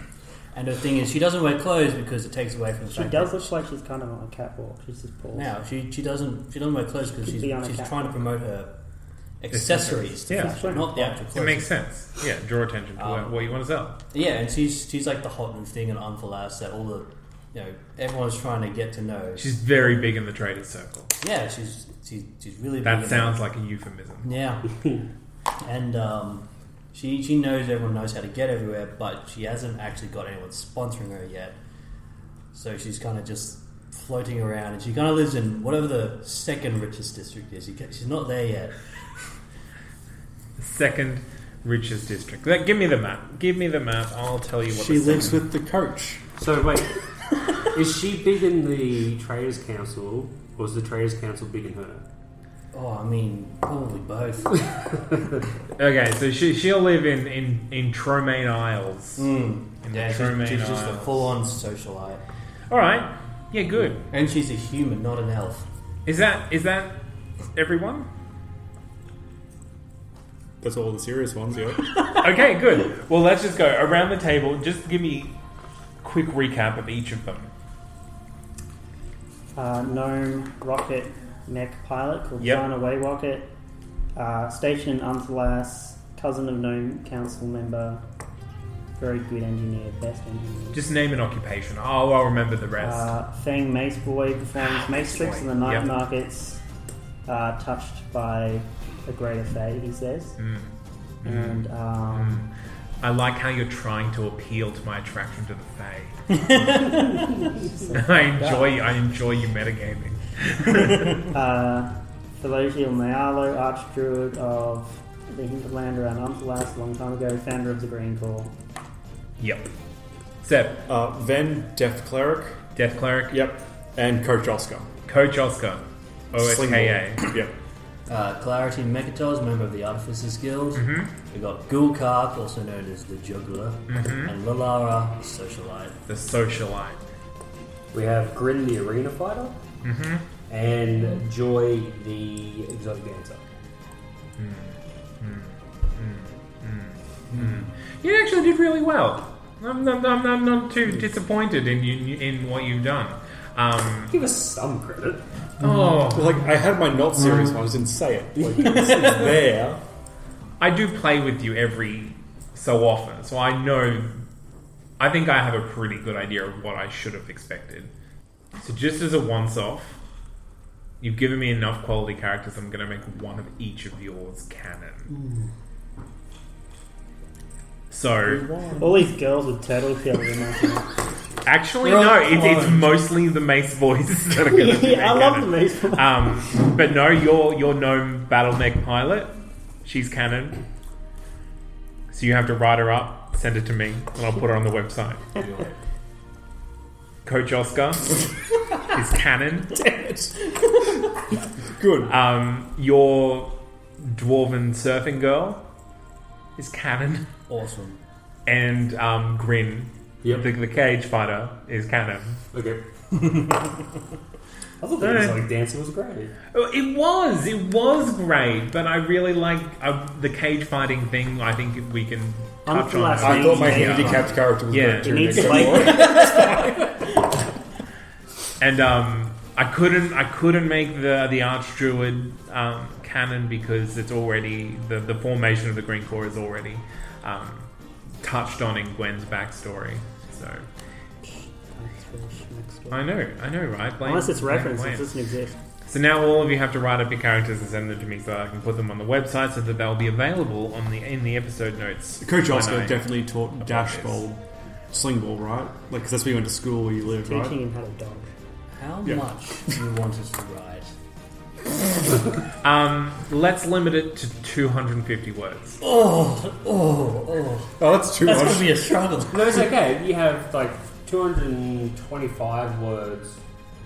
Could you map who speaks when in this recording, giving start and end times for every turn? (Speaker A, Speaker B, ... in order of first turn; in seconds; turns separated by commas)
Speaker A: 0.5-3.5, Speaker B: 2.9-5.5, Speaker A: 5.3-8.7, Speaker B: 7.2-8.2, Speaker A: 9.4-11.7, Speaker C: 9.5-14.0, Speaker B: 10.3-11.2, Speaker A: 13.0-13.5, Speaker A: 14.1-19.5, Speaker C: 19.4-21.1, Speaker A: 21.2-23.4, Speaker C: 22.8-24.3, Speaker A: 24.2-24.8, Speaker D: 24.7-25.1, Speaker A: 25.6-31.6, Speaker A: 32.5-38.7, Speaker C: 40.6-45.5, Speaker E: 44.7-46.2, Speaker D: 46.4-47.0, Speaker D: 47.6-52.0, Speaker A: 52.7-55.2, Speaker C: 55.8-59.3, Speaker A: 59.2-62.2, Speaker C: 59.8-61.3, Speaker C: 62.7-64.0, Speaker A: 64.1-65.7, Speaker C: 66.0-67.0, Speaker C: 67.5-68.1, Speaker E: 70.6-71.9, Speaker C: 72.1-75.4, Speaker C: 76.0-77.5, Speaker B: 79.5-83.5, Speaker C: 82.4-82.6, Speaker B: 84.1-88.0, Speaker B: 89.0-90.8, Speaker C: 90.7-93.1, Speaker B: 92.8-96.6, Speaker A: 94.6-95.5, Speaker B: 97.2-100.4, Speaker C: 100.4-102.5, Speaker B: 101.2-102.4, Speaker C: 103.0-106.5, Speaker B: 107.7-108.7, Speaker C: 107.9-111.2, Speaker B: 111.3-118.5, Speaker C: 119.4-119.7, Speaker C: 120.4-120.8, Speaker E: 120.9-122.6, Speaker C: 122.8-123.5, Speaker E: 123.3-124.9, Speaker C: 125.0-127.2, Speaker E: 126.3-127.5, Speaker A: 128.1-135.9, Speaker C: 130.7-131.1, Speaker C: 133.9-134.3, Speaker C: 136.1-137.0, Speaker D: 137.9-139.6, Speaker C: 139.8-140.3, Speaker D: 140.5-143.5, Speaker C: 144.4-154.1, Speaker D: 154.1-155.2, Speaker C: 155.6-156.5, Speaker E: 156.0-159.8, Speaker D: 158.4-159.3, Speaker C: 160.6-164.2, Speaker C: 165.0-167.9, Speaker C: 168.6-170.0, Speaker C: 171.0-175.1, Speaker A: 175.1-175.5, Speaker C: 177.9-178.4, Speaker A: 178.3-179.0, Speaker B: 178.8-180.9, Speaker C: 181.4-190.6, Speaker A: 181.8-182.8, Speaker B: 184.5-186.4, Speaker C: 192.1-195.4, Speaker D: 195.4-195.7, Speaker C: 197.2-198.3, Speaker C: 198.8-199.8, Speaker E: 199.8-200.3, Speaker E: 201.7-202.1, Speaker C: 202.1-205.6, Speaker C: 206.6-207.2, Speaker A: 207.5-208.0, Speaker C: 208.4-212.4, Speaker D: 210.2-210.5, Speaker D: 212.5-212.8, Speaker D: 214.8-216.3, Speaker C: 215.0-215.4, Speaker C: 216.5-226.1, Speaker B: 222.7-224.4, Speaker E: 223.2-226.8, Speaker B: 225.0-226.4, Speaker C: 228.6-237.7, Speaker C: 238.2-240.7, Speaker B: 241.2-243.0, Speaker C: 242.9-245.1, Speaker B: 244.0-245.6, Speaker C: 245.8-254.2, Speaker E: 252.2-257.6, Speaker B: 257.0-258.3, Speaker A: 258.7-260.9, Speaker C: 262.6-265.8, Speaker A: 265.8-269.7, Speaker E: 267.8-268.7, Speaker D: 269.3-273.4